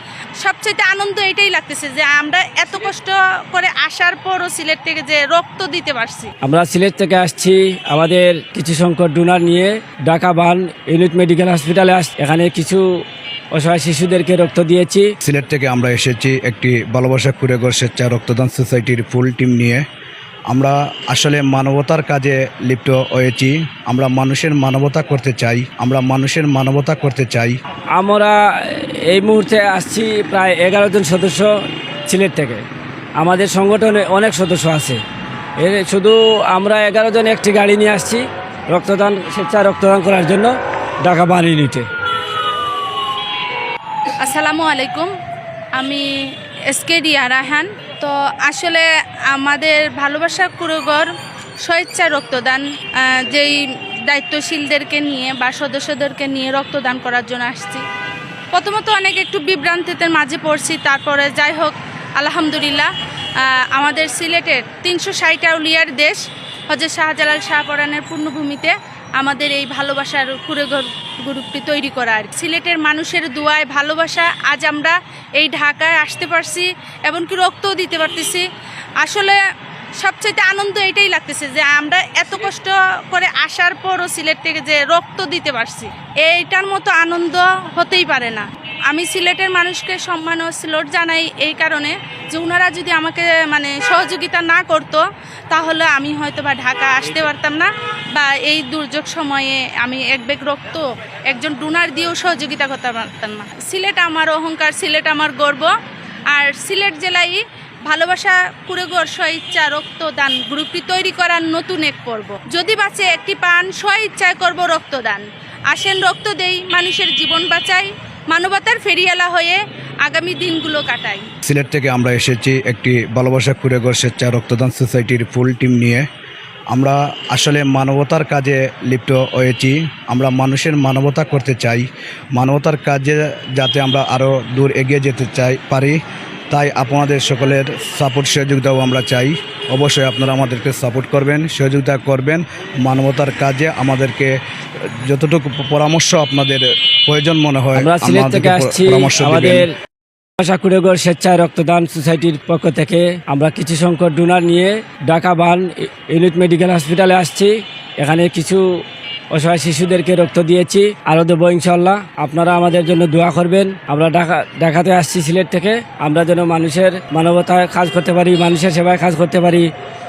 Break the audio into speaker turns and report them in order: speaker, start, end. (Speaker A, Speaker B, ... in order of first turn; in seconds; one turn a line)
Speaker A: 0.4-6.3
Speaker B: 6.4-12.8
Speaker B: 13.5-15.1
Speaker C: 15.2-19.8
Speaker C: 20.5-27.6
Speaker B: 27.9-31.5
Speaker B: 32.1-32.6
Speaker B: 33.2-35.0
Speaker B: 35.6-41.9
Speaker A: 44.2-45.1
Speaker A: 45.8-46.0
Speaker A: 46.7-51.1
Speaker A: 51.6-57.8
Speaker A: 58.5-78.5
Speaker A: 79.0-79.4
Speaker A: 80.0-105.7
Speaker A: 106.3-121.3
Speaker C: 121.4-126.0
Speaker C: 126.7-136.0
Speaker C: 136.5-149.7
Speaker B: 147.8-149.7
Speaker B: 150.4-158.6
Speaker B: 159.3-169.7